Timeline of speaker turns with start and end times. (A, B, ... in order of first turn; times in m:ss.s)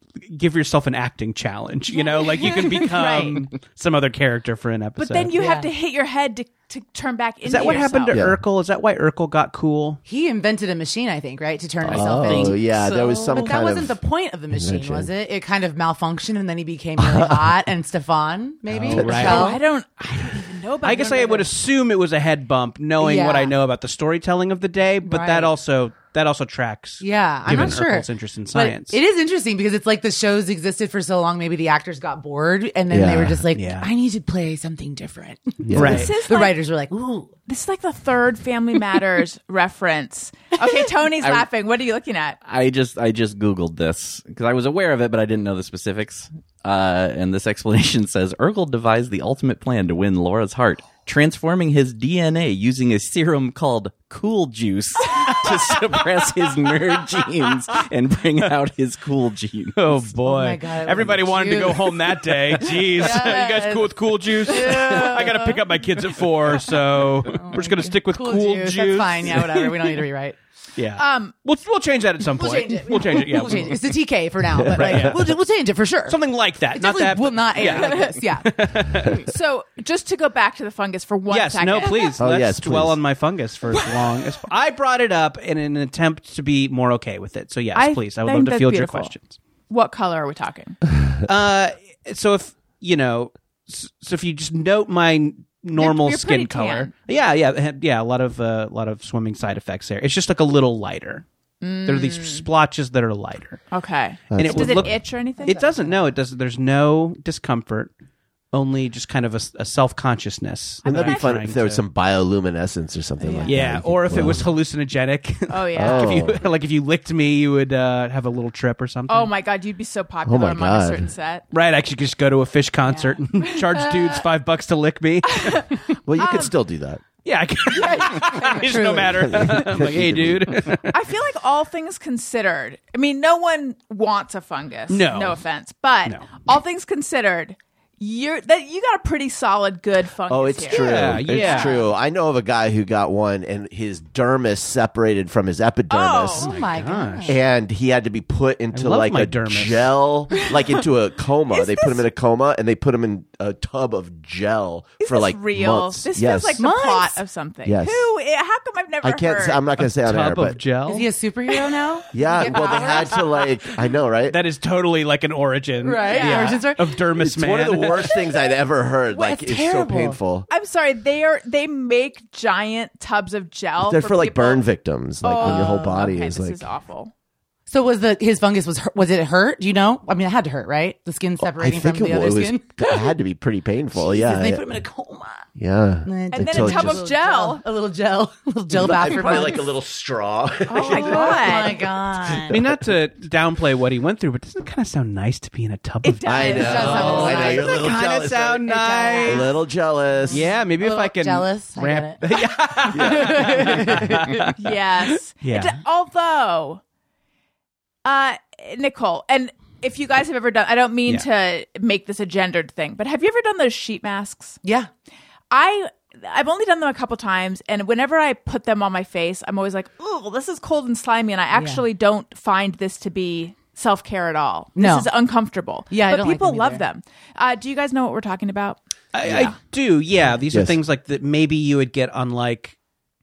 0:00.3-0:05.3 A
0:02.0-0:03.4 B
0:05.0-0:08.2 B
0:05.3-0:05.7 C
0:07.4-0:10.0 A
0:08.1-0:08.4 D
0:10.0-0:19.6 C
0:11.8-0:14.0 D
0:14.5-0:15.1 D
0:17.0-0:17.6 D
0:18.7-0:19.6 A
0:18.9-0:19.4 D
0:19.2-0:21.5 B
0:20.8-0:29.0 A
0:23.0-0:23.5 C
0:25.0-0:25.5 C
0:27.0-0:37.3 C
0:32.9-0:33.4 D
0:33.5-0:33.9 A
0:35.6-0:36.1 D
0:35.7-0:36.1 A
0:35.8-0:36.6 B
0:37.5-0:42.4 B
0:41.2-0:41.5 E
0:42.4-0:59.8 E
0:59.8-1:10.0 A
1:00.2-1:05.8 C
1:06.5-1:10.4 C
1:10.8-1:14.0 A
1:11.0-1:11.3 B
1:12.2-1:16.2 C
1:14.5-1:15.2 D
1:14.7-1:15.3 A
1:16.1-1:19.3 A
1:16.7-1:18.5 C
1:17.6-1:18.2 B
1:19.2-1:22.1 B
1:21.3-1:29.4 A
1:22.2-1:23.0 D
1:27.7-1:29.1 B
1:29.7-1:30.8 B
1:31.2-1:41.2 A
1:35.8-1:36.9 B
1:41.6-1:42.5 B
1:41.8-1:43.6 A
1:43.7-1:45.6 B
1:44.3-1:45.0 D
1:44.3-1:47.9 A
1:45.4-1:46.0 C
1:48.5-1:51.8 A
1:50.8-1:51.3 B
1:50.8-1:54.5 D
1:53.2-1:53.5 B
1:53.4-1:59.3 A
1:55.5-1:56.2 B
1:55.8-1:56.4 D
1:59.1-2:01.4 B
2:00.2-2:01.1 D
2:01.5-2:05.8 A
2:02.8-2:03.7 B
2:05.3-2:06.5 B
2:06.0-2:07.0 D
2:07.2-2:10.9 A
2:07.7-2:08.8 B
2:07.9-2:09.0 C
2:09.0-2:10.8 D
2:10.9-2:21.9 B
2:14.9-2:15.4 A
2:16.0-2:16.4 A
2:20.3-2:26.5 D
2:20.7-2:21.8 A
2:25.9-2:26.5 B
2:26.4-2:27.3 A
2:26.4-2:27.4 C
2:27.3-2:36.6 D
2:28.7-2:29.9 A
2:30.3-2:30.7 B
2:31.5-2:32.0 B
2:35.0-2:39.6 B
2:36.6-2:37.2 C
2:37.6-2:38.1 D
2:39.0-2:40.6 D
2:39.8-2:41.1 A
2:40.9-2:43.2 C
2:42.1-2:44.4 D
2:42.4-2:43.1 B
2:44.3-2:48.1 A
2:45.8-2:46.9 C
2:46.0-2:46.6 B
2:47.1-2:50.5 D
2:49.1-2:50.2 C
2:50.5-2:54.6 B
2:53.8-2:56.6 D
2:55.2-2:57.1 B
2:55.3-2:56.0 C
2:57.7-3:02.9 C
3:01.4-3:04.6 D
3:03.9-3:05.5 C
3:05.6-3:07.0 D
3:06.0-3:09.6 C
3:06.3-3:07.6 B
3:08.7-3:12.6 D
3:10.7-3:11.8 B
3:10.8-3:12.6 C
3:12.5-3:19.5 A
3:16.0-3:17.7 B
3:16.2-3:18.6 D
3:16.5-3:17.8 C
3:18.6-3:19.5 C
3:19.2-3:20.5 D
3:20.3-3:22.2 C
3:20.3-3:25.8 A
3:22.8-3:24.5 C
3:22.9-3:24.0 D
3:24.6-3:26.8 B
3:28.0-3:34.6 B
3:34.6-3:34.9 C
3:35.5-3:49.5 B
3:41.5-3:41.8 C
3:44.8-3:45.1 C
3:45.9-3:46.8 C
3:49.1-3:52.8 A
3:50.5-3:50.8 D